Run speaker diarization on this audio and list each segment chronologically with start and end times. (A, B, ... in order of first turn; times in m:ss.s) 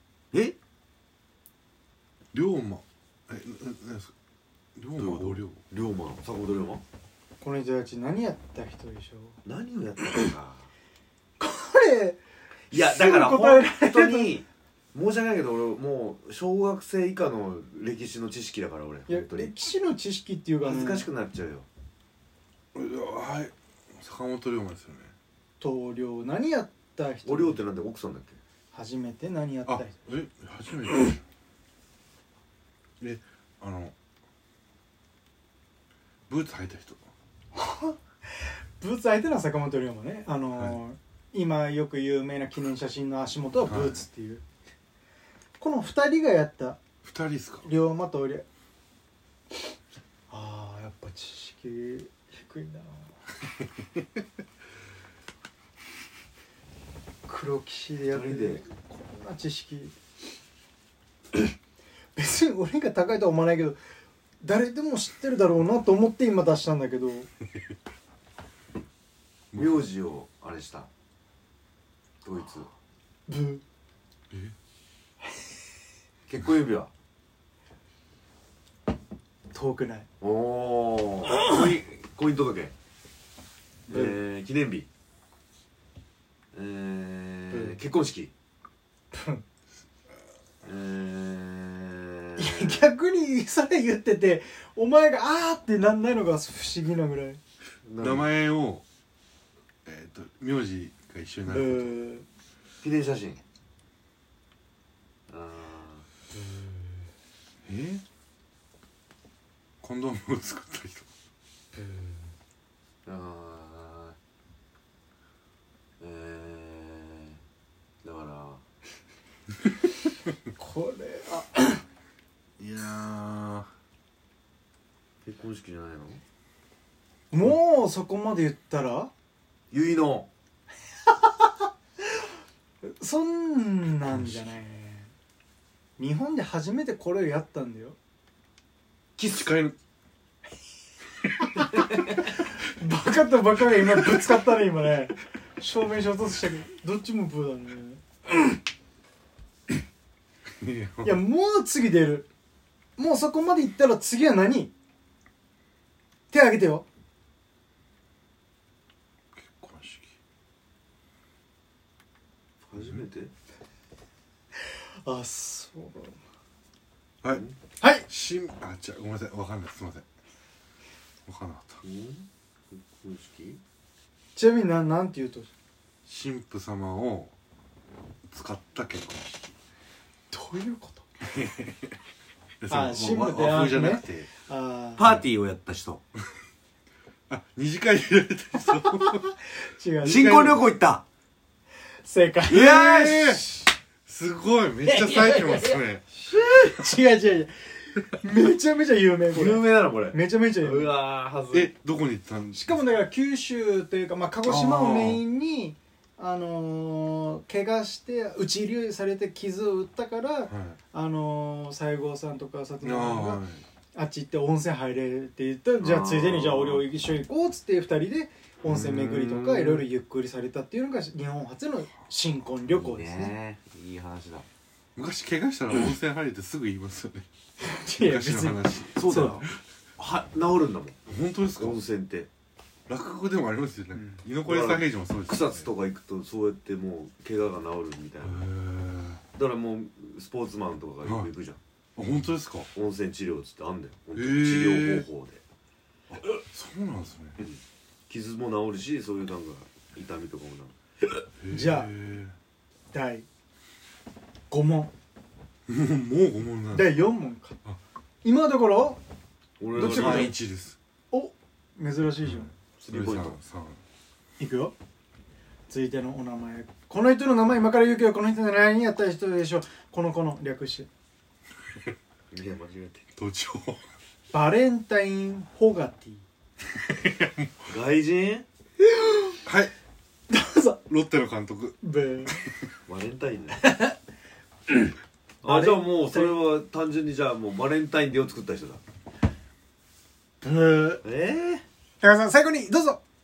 0:02.3-0:04.1 A
0:04.8-0:05.6 A
0:05.0-0:06.8 B
0:07.4-0:09.4 C
0:09.4-0:10.7 B
0:11.4-0:14.4 C
0:12.7-0:19.5 B
0:19.1-0:21.1 C
0:20.6-0:21.7 B
0:22.8-0:25.1 A
0:25.6-0:27.6 C
0:27.2-0:28.4 B
0:28.7-0:29.9 C
0:29.7-0:31.2 A
0:33.0-0:33.9 A
0:36.3-0:37.0 A
0:37.5-0:38.0 C
0:38.8-0:44.4 C
0:43.7-0:44.0 A
0:45.6-0:46.8 C
0:47.0-0:47.7 A
0:47.6-0:48.5 C
0:50.3-0:53.1 C
0:57.3-0:59.9 C
0:58.1-0:58.6 B
1:02.2-1:03.8 C
1:04.4-1:07.3 C
1:09.5-1:09.8 A
1:09.5-1:10.9 B
1:12.2-1:12.7 B
1:13.3-1:13.6 C
1:16.3-1:16.9 B
1:19.5-1:20.1 C
1:20.2-1:22.7 B
1:21.3-1:21.7 C
1:23.9-1:24.9 B
1:23.9-1:24.2 C
1:26.5-1:28.3 B
1:27.5-1:27.8 C
1:29.1-1:29.4 C
1:30.6-1:32.9 B
1:32.4-1:37.4 C
1:37.8-1:38.3 B
1:38.0-1:38.8 A
1:39.8-1:42.0 A
1:41.5-1:42.2 C
1:42.8-1:43.4 B
1:45.3-1:46.1 B
1:46.4-1:46.6 C
1:47.7-1:48.0 A
1:49.8-1:51.1 A
1:51.8-1:52.2 C
1:53.1-1:54.2 B
1:56.0-1:57.4 B
1:58.0-1:58.6 B
2:00.6-2:01.8 C
2:02.6-2:03.7 A
2:05.2-2:06.2 B
2:07.3-2:09.1 C
2:09.7-2:10.3 B
2:12.8-2:15.1 C
2:16.0-2:18.0 C
2:19.2-2:19.8 A
2:21.8-2:28.5 C
2:24.0-2:24.2 A
2:30.6-2:31.2 A
2:31.0-2:32.3 C
2:33.0-2:34.7 C
2:36.3-2:36.9 C
2:39.4-2:40.2 A
2:42.7-2:43.3 B
2:42.8-2:43.0 A
2:45.0-2:46.2 C
2:47.8-2:48.1 C
2:48.1-2:50.0 A
2:51.3-2:51.8 A
2:51.8-2:53.6 B
2:54.4-2:55.5 C
2:56.1-2:57.3 A
2:58.3-2:59.5 A
3:00.3-3:01.1 C
3:02.6-3:04.3 A
3:02.7-3:05.2 C
3:05.0-3:06.0 B
3:07.3-3:09.3 A
3:08.9-3:10.6 C
3:10.0-3:10.7 A
3:10.0-3:11.0 B
3:12.0-3:13.7 C
3:12.5-3:13.4 B
3:12.6-3:13.4 A
3:14.1-3:16.0 A
3:15.0-3:15.8 B
3:16.1-3:20.9 C
3:19.3-3:21.7 B
3:21.5-3:22.8 A
3:22.5-3:43.4 C
3:24.4-3:25.2 A
3:30.5-3:30.8 A
3:32.8-3:33.6 A
3:35.8-3:36.8 B
3:36.4-3:36.8 A
3:38.6-3:39.4 A
3:39.4-3:39.8 B
3:42.7-3:44.5 B
3:45.0-3:47.3 A
3:47.6-3:49.5 C
3:48.0-3:49.6 A
3:49.0-3:49.4 B
3:50.0-3:52.3 B
3:51.1-3:51.8 A
3:52.9-3:55.7 A
3:54.0-3:54.2 C
3:54.4-3:58.5 B
3:58.2-3:59.2 A
3:59.4-4:01.6 B
4:01.0-4:01.3 A
4:02.0-4:02.7 A
4:02.7-4:05.4 B
4:04.2-4:05.1 A
4:06.2-4:07.4 A
4:07.4-4:10.7 B
4:11.4-4:12.4 A
4:11.5-4:11.9 C
4:12.9-4:13.3 C
4:14.5-4:14.9 C
4:15.7-4:17.1 A
4:16.7-4:17.6 C
4:18.2-4:19.0 C
4:19.6-4:20.4 B
4:19.7-4:20.4 C
4:19.8-4:20.8 A
4:21.1-4:22.5 C
4:22.2-4:23.8 A
4:22.8-4:23.4 B
4:24.4-4:24.7 C
4:25.7-4:30.9 C
4:32.3-4:33.1 B
4:33.2-4:33.8 A
4:34.3-4:36.2 C
4:36.9-4:37.5 A
4:37.7-4:38.5 B
4:39.0-4:39.4 C
4:39.4-4:39.7 A
4:40.3-4:40.8 C
4:40.9-4:42.5 A
4:41.8-4:42.4 C
4:42.9-4:43.6 B
4:43.6-4:43.9 C
4:45.4-4:48.8 B
4:45.4-4:46.3 C
4:50.4-4:51.0 C
4:51.0-4:51.6 B
4:52.0-4:53.0 C